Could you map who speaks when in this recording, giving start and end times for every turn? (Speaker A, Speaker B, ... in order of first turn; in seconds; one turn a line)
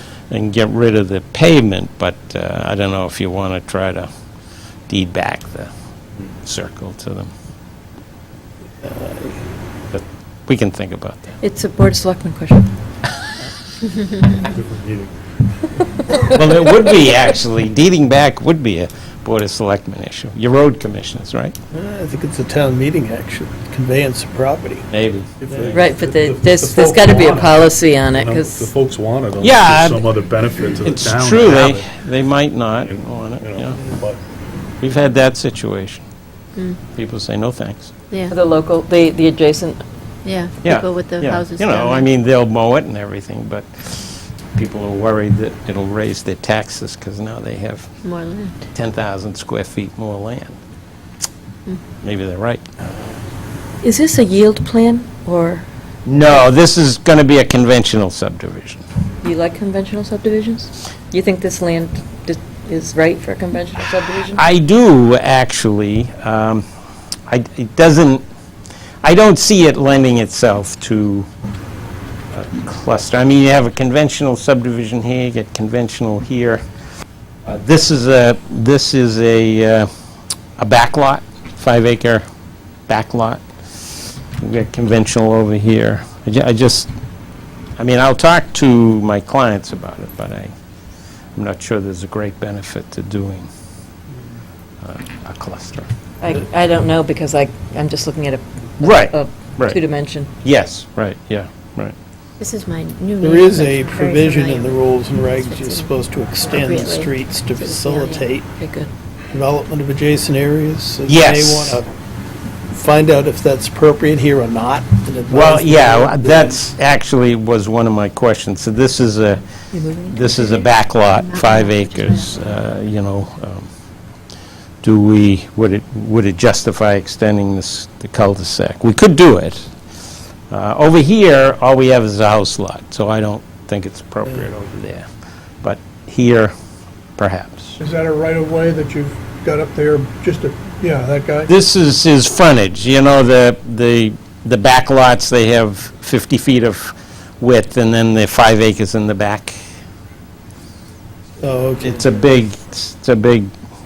Speaker A: 0.3-4.1
Speaker A: 4.9-5.7
Speaker A: 6.4-7.3
Speaker B: 8.8-9.4
Speaker A: 9.9-11.3
Speaker C: 11.4-12.7
Speaker D: 14.4-15.1
Speaker A: 16.3-21.6
Speaker B: 21.7-24.9
Speaker A: 24.9-25.3
Speaker D: 25.4-32.0
Speaker C: 25.7-28.7
Speaker A: 29.4-30.1
Speaker A: 30.8-33.8
Speaker D: 32.8-34.2
Speaker A: 34.8-36.1
Speaker A: 36.9-37.9
Speaker C: 38.3-39.8
Speaker E: 40.2-42.1
Speaker A: 40.6-47.9
Speaker E: 48.0-48.6
Speaker A: 48.7-50.6
Speaker A: 52.0-52.6
Speaker C: 53.8-55.7
Speaker A: 56.1-58.8
Speaker C: 59.2-64.4
Speaker A: 64.3-66.7
Speaker A: 67.3-68.2
Speaker A: 69.0-71.3
Speaker A: 72.3-76.6
Speaker A: 77.5-79.9
Speaker A: 80.6-82.2
Speaker A: 82.9-83.4
Speaker A: 84.4-86.9
Speaker A: 87.8-90.5
Speaker A: 91.4-93.5
Speaker A: 94.8-95.9
Speaker C: 96.2-100.3
Speaker A: 98.8-99.8
Speaker A: 100.4-102.0
Speaker E: 102.4-105.9
Speaker B: 103.2-108.5
Speaker E: 106.5-108.2
Speaker C: 107.9-108.9
Speaker B: 109.3-111.9
Speaker A: 111.1-111.8
Speaker B: 112.7-116.6
Speaker A: 115.3-119.4
Speaker C: 119.7-120.4
Speaker A: 120.1-123.7
Speaker E: 121.2-122.3
Speaker A: 124.8-129.7
Speaker A: 130.5-135.1
Speaker A: 135.6-136.5
Speaker A: 137.2-137.8
Speaker F: 137.8-141.5
Speaker A: 141.5-149.6
Speaker B: 151.4-152.1
Speaker A: 151.8-153.5